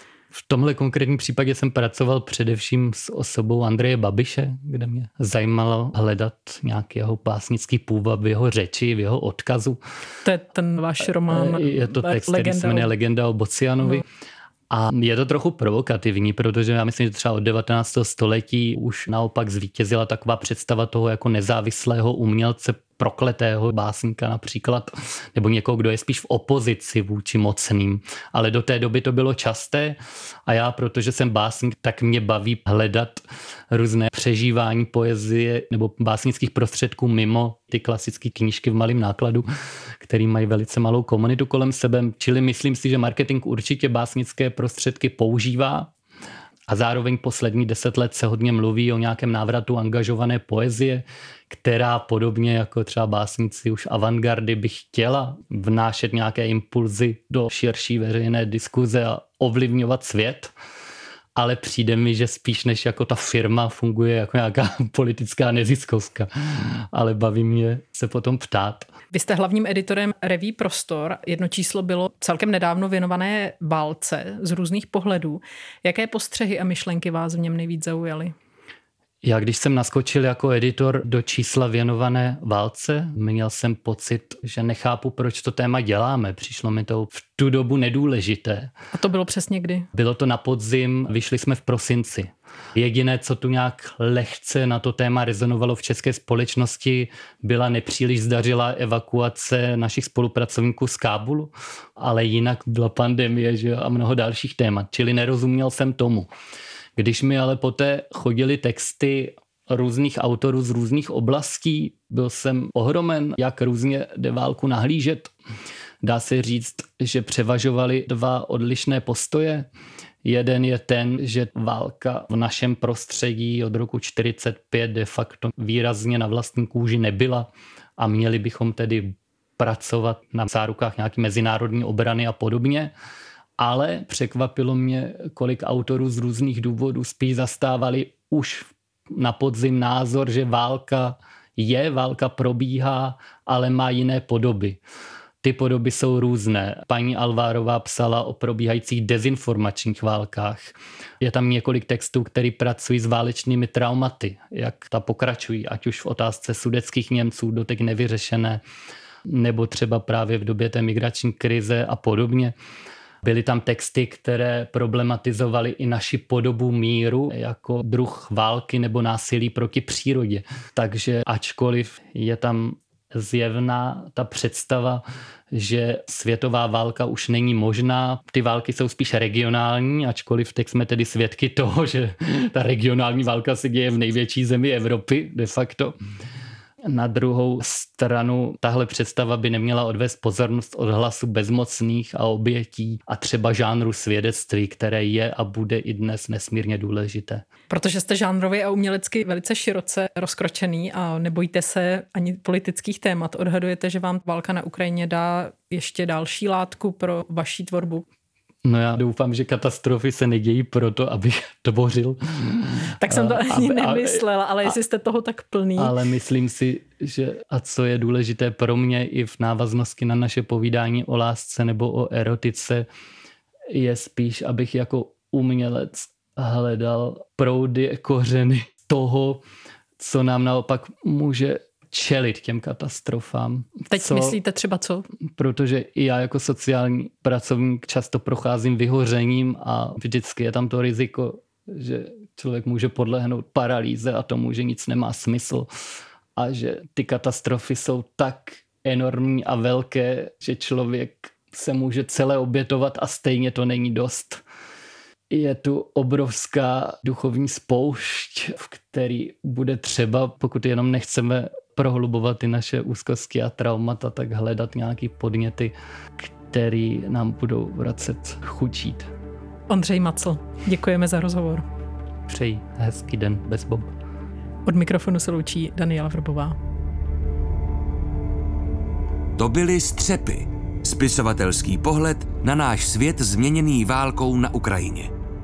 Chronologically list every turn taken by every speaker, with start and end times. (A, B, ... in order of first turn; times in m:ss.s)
0:00.3-0:09.8 A
0:10.2-0:12.9 B
0:11.3-0:14.0 A
0:14.7-0:39.5 A
0:40.0-0:45.9 A
0:46.7-1:00.5 A
1:01.4-1:08.9 A
1:09.1-1:18.3 B
1:19.2-1:28.7 A
1:28.9-1:29.9 B
1:29.9-1:46.3 A
1:47.0-1:55.3 A
1:56.0-1:59.7 A
2:00.2-2:12.9 A
2:13.6-2:24.8 A
2:25.4-2:38.6 A
2:39.3-2:42.5 A
2:43.2-3:05.9 A
3:06.8-3:17.4 A
3:17.7-3:28.0 B
3:28.6-3:34.7 A
3:33.0-3:35.9 B
3:35.8-3:42.8 A
3:43.7-3:49.4 A
3:50.0-3:54.4 A
3:53.9-3:55.1 B
3:55.4-4:05.7 A
4:06.4-4:14.4 A
4:15.3-4:29.1 A
4:29.7-4:31.6 B
4:32.3-4:33.9 A
4:34.6-4:36.6 B
4:39.4-4:45.1 C